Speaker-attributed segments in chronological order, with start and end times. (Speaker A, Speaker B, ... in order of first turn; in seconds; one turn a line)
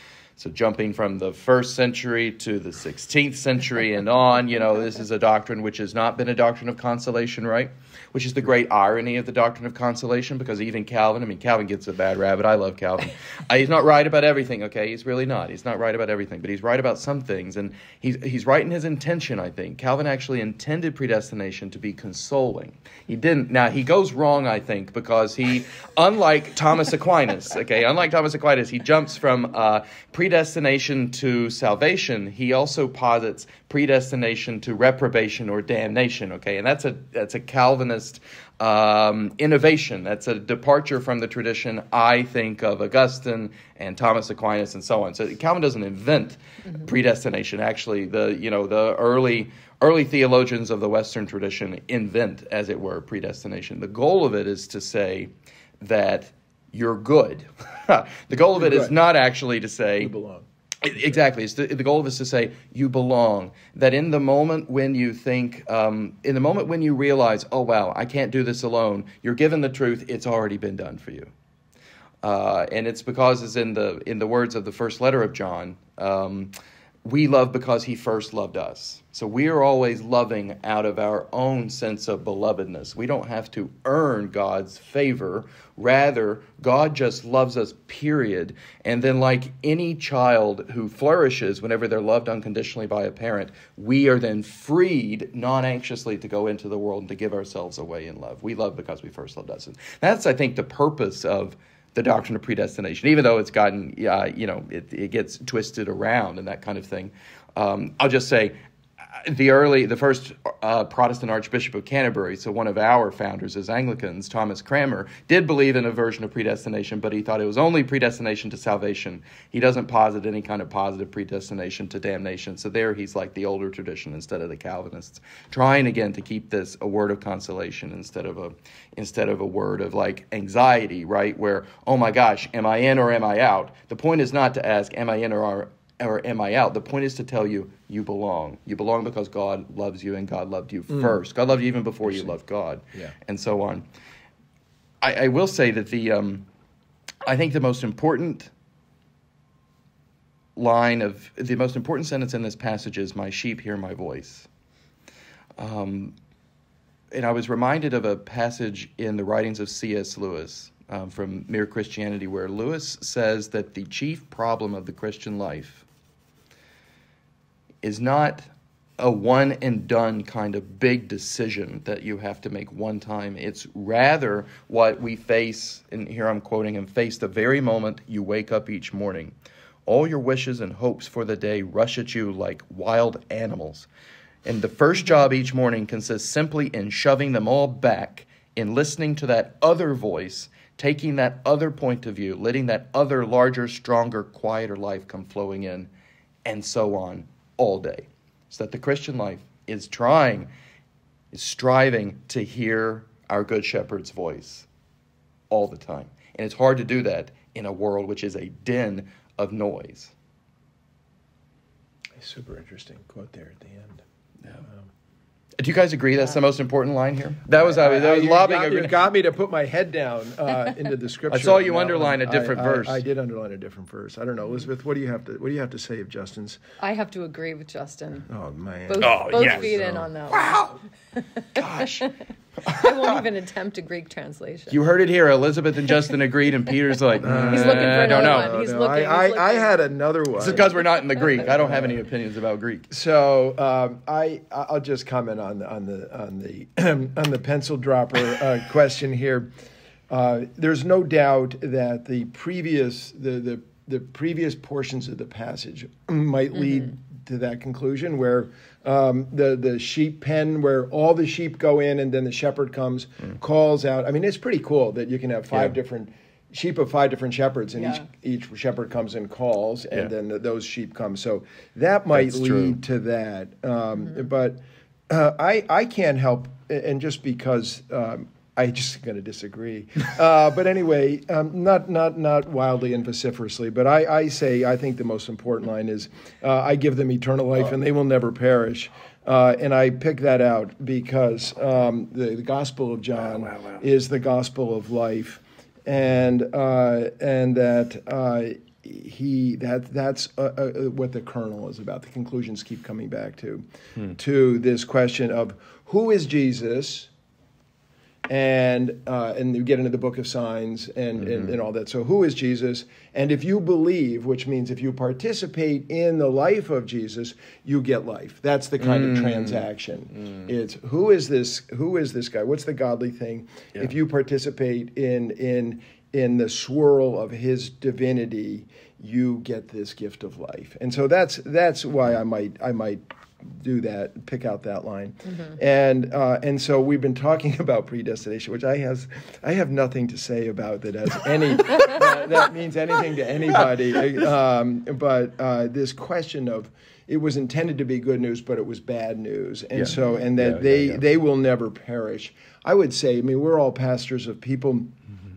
Speaker A: 0.4-60.1
Speaker B: 58.5-59.0
Speaker B: 60.0-60.5
Speaker A: 60.8-71.3
Speaker A: 72.2-76.5
Speaker A: 77.0-108.6
Speaker A: 109.2-143.9
Speaker B: 140.9-141.2
Speaker B: 142.1-142.3
Speaker A: 145.0-146.5
Speaker A: 147.2-148.5
Speaker A: 150.6-154.5
Speaker A: 155.6-156.2
Speaker A: 157.1-165.8
Speaker A: 167.8-168.5
Speaker A: 169.0-179.3
Speaker A: 179.9-183.9
Speaker A: 184.4-195.9
Speaker A: 196.4-200.5
Speaker A: 201.3-204.7
Speaker A: 205.5-210.1
Speaker B: 212.2-214.0
Speaker A: 215.6-219.0
Speaker B: 217.5-226.6
Speaker A: 221.3-223.0
Speaker C: 226.8-228.3
Speaker B: 228.3-230.1
Speaker C: 228.9-232.1
Speaker A: 229.0-230.8
Speaker A: 231.6-232.1
Speaker A: 232.6-233.2
Speaker C: 232.7-234.9
Speaker A: 234.7-238.6
Speaker B: 237.2-242.0
Speaker C: 237.2-239.8
Speaker A: 240.4-242.9
Speaker B: 242.9-249.5
Speaker B: 250.1-307.1
Speaker C: 267.8-268.1
Speaker A: 272.1-272.8
Speaker A: 293.5-293.8
Speaker B: 308.3-354.9
Speaker A: 318.8-319.6
Speaker A: 349.8-351.0